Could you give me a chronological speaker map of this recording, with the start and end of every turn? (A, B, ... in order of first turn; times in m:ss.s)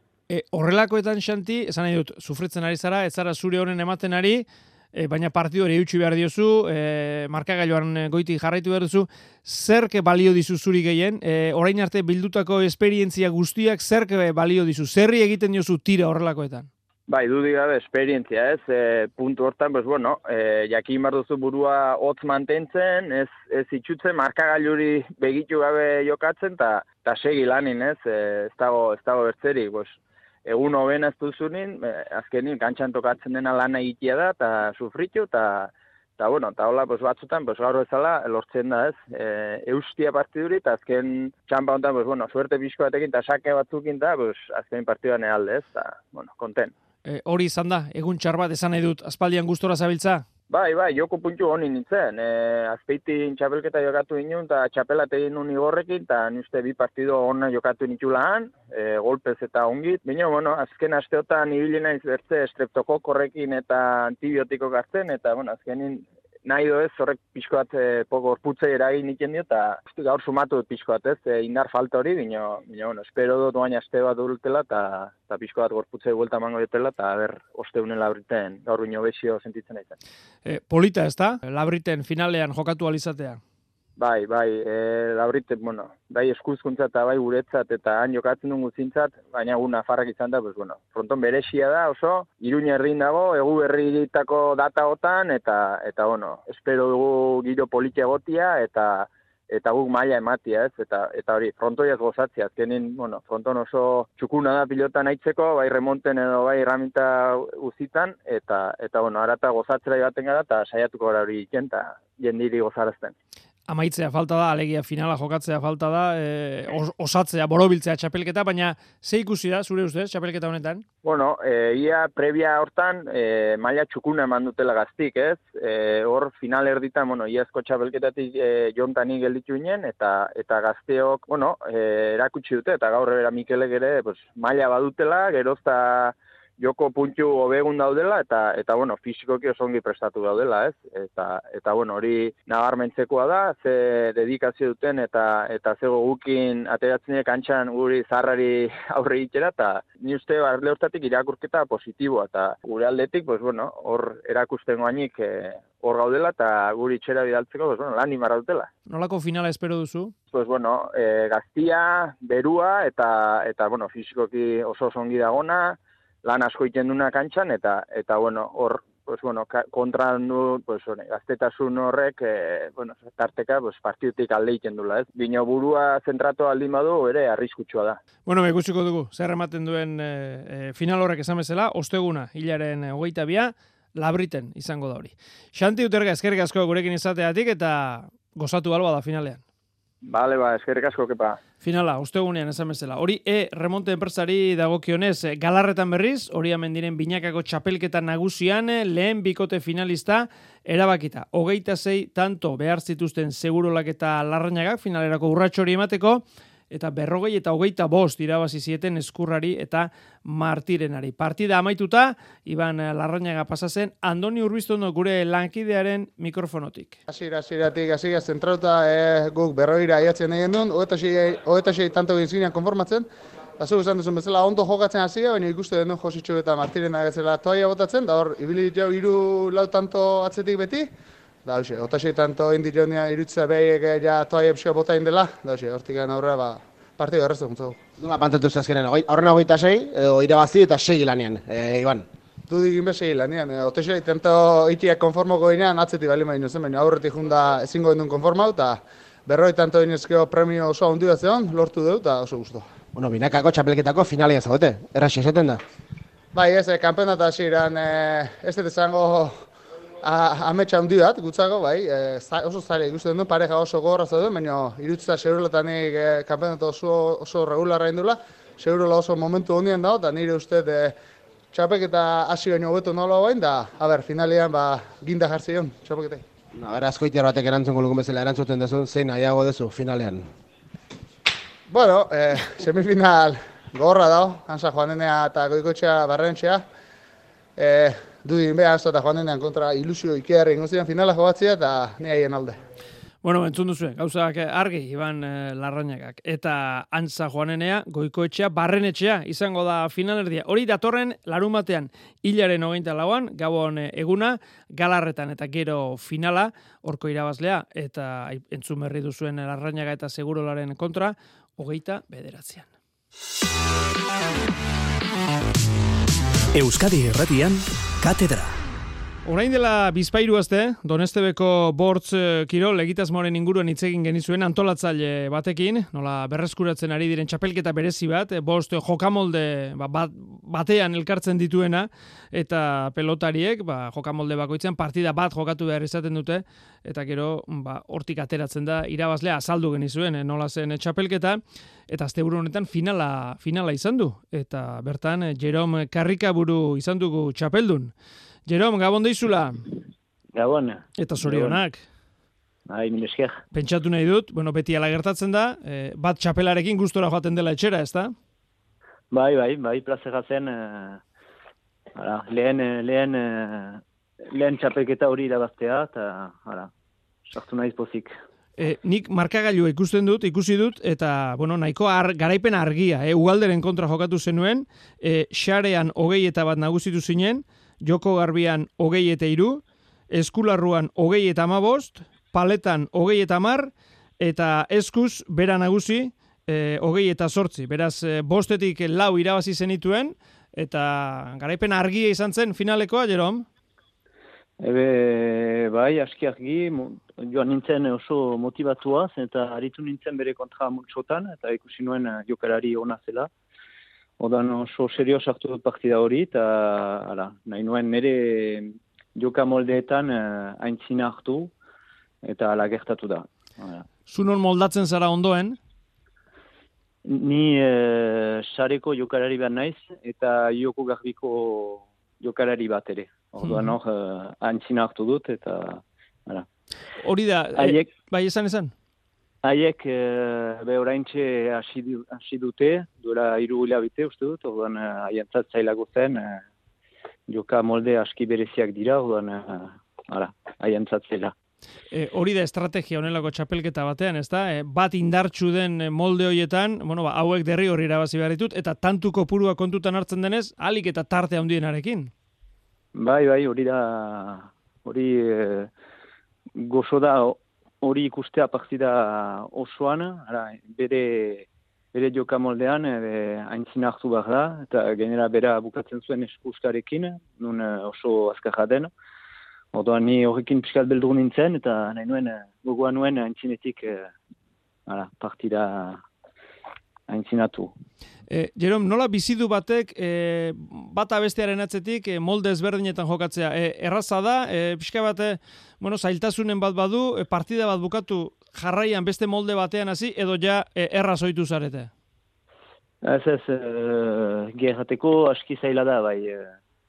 0:00.3-0:16.7 A
0:17.1-0:46.7 B
0:47.0-0:50.2 A
0:50.5-1:19.9 B
1:20.4-1:23.4 A
1:24.0-1:53.1 B
1:53.7-2:00.8 A
2:01.0-2:38.7 B
2:38.9-2:40.1 A
2:40.3-2:58.0 B
2:58.2-3:09.4 A
3:10.0-3:11.4 B
3:11.6-3:37.0 A
3:37.1-3:43.1 C
3:43.6-3:50.9 C
3:51.4-3:57.8 C
3:58.0-4:02.0 D
4:02.5-4:12.7 C
4:12.9-4:15.6 D
4:16.3-4:19.5 C
4:20.0-4:31.0 C
4:31.5-4:36.2 C
4:36.6-4:40.3 D
4:41.7-4:46.6 C
4:47.6-4:52.6 C
4:53.2-5:12.7 A
5:16.5-5:18.6 E
5:19.2-5:47.9 A
5:48.5-5:49.6 A
5:50.3-5:51.5 F
5:51.0-5:51.8 A
5:52.7-5:53.4 F
5:53.5-5:58.1 A
5:59.1-6:01.0 F
6:02.0-6:03.8 F
6:04.3-6:06.7 F
6:07.3-6:08.1 F
6:08.6-6:33.4 A
6:34.6-6:43.3 F
6:44.2-6:51.5 F
6:52.2-6:53.8 F
6:54.1-6:55.6 A
6:57.0-7:06.4 F
7:03.4-7:03.8 A
7:07.0-7:08.7 A
7:07.6-7:07.8 F
7:09.4-7:16.4 F
7:17.3-7:21.3 F
7:21.9-7:32.1 A
7:33.0-7:35.7 F
7:36.6-7:48.9 F
7:49.7-7:54.1 F
7:54.9-7:56.0 F
7:57.1-7:57.7 F
7:58.3-8:11.9 A
8:13.0-8:16.4 F